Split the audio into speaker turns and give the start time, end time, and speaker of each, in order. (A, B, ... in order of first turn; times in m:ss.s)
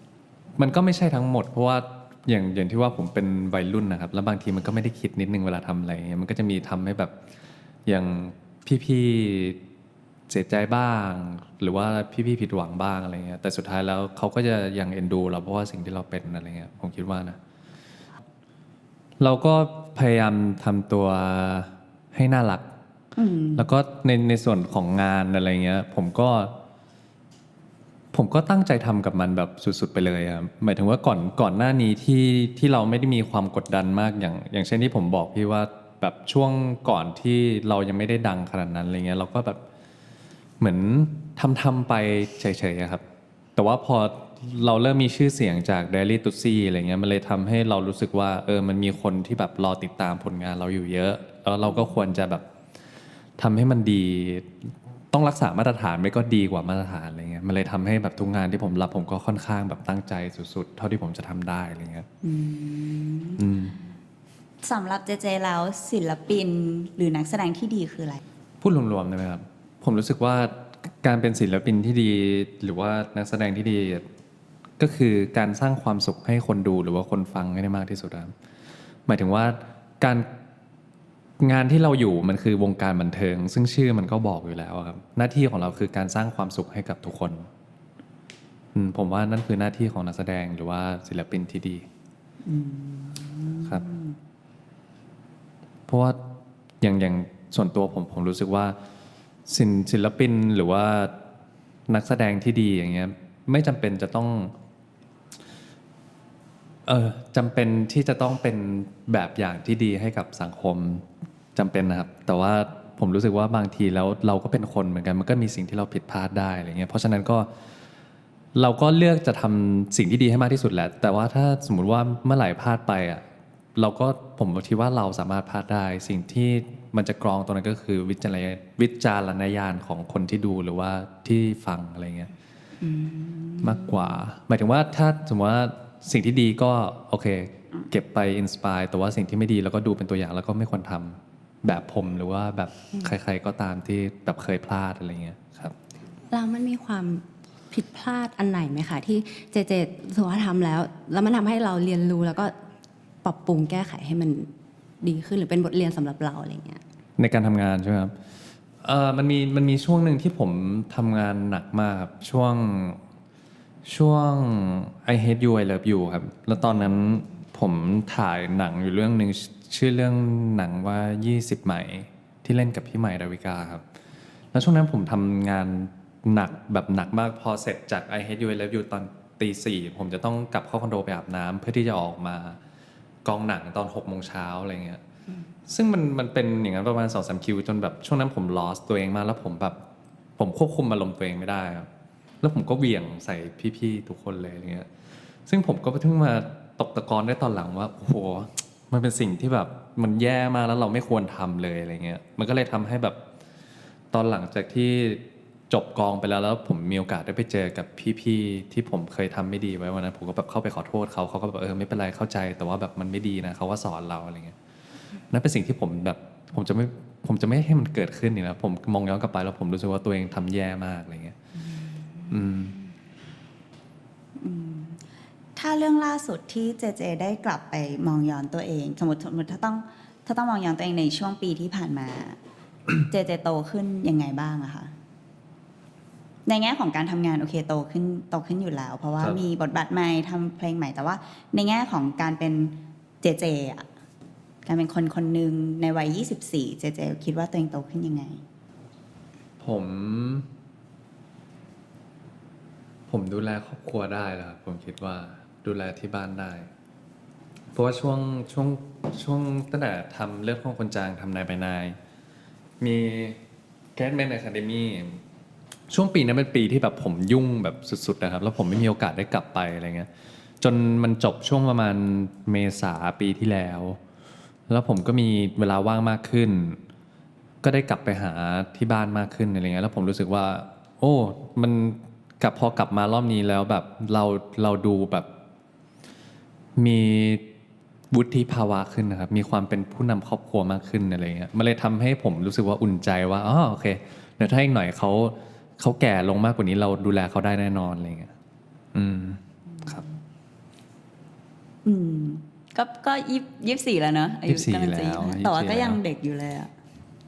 0:00.6-0:07.1 A
0:07.8-0:09.6 A
0:10.3-0:17.4 A
0:19.2-0:22.7 A
0:23.2-0:23.7 B
0:23.6-0:26.6 A
0:28.1-0:39.6 A
0:40.6-0:43.0 A
0:43.6-0:52.4 A
0:53.4-1:02.1 A
1:02.2-1:03.4 B
1:03.4-1:03.8 A
1:04.6-1:08.2 B
1:08.6-1:14.0 A
1:14.8-1:18.3 A
1:19.1-1:20.3 A
1:21.4-1:27.5 A
1:28.7-1:31.9 A
1:32.4-1:34.1 B
1:35.9-1:36.2 A
1:36.8-1:38.8 A
1:39.5-1:41.1 A
1:41.9-1:44.5 A
1:46.8-1:57.5 A
1:58.5-2:03.2 A
2:03.8-2:12.3 A
2:12.8-2:13.6 B
2:13.6-2:25.7 A
2:26.3-2:32.5 C
2:33.2-2:34.5 C
2:35.0-2:36.8 C
2:37.2-2:38.1 A
2:38.8-2:43.0 A
2:43.8-2:53.8 A
2:54.5-3:02.6 A
3:03.2-3:05.0 A
3:05.7-3:09.8 A
3:10.4-3:11.9 A
3:12.4-3:14.9 A
3:15.5-3:23.2 A
3:24.1-3:34.5 A
3:35.3-3:41.3 A
3:42.3-3:42.8 A
3:44.4-3:45.0 B
3:45.6-3:52.4 B
3:53.0-3:54.9 B
3:56.4-4:03.9 B
4:04.6-4:08.4 B
4:09.6-4:10.5 A
4:13.1-4:16.7 A
4:17.7-4:22.0 A
4:22.8-4:23.4 A
4:24.0-4:25.2 A
4:25.9-4:30.1 A
4:30.6-4:34.0 A
4:34.7-4:36.8 A
4:37.6-4:45.3 A
4:46.8-4:47.4 A
4:48.1-4:58.3 A
4:58.9-5:00.0 A
5:01.8-5:06.7 B
5:04.5-5:06.0 A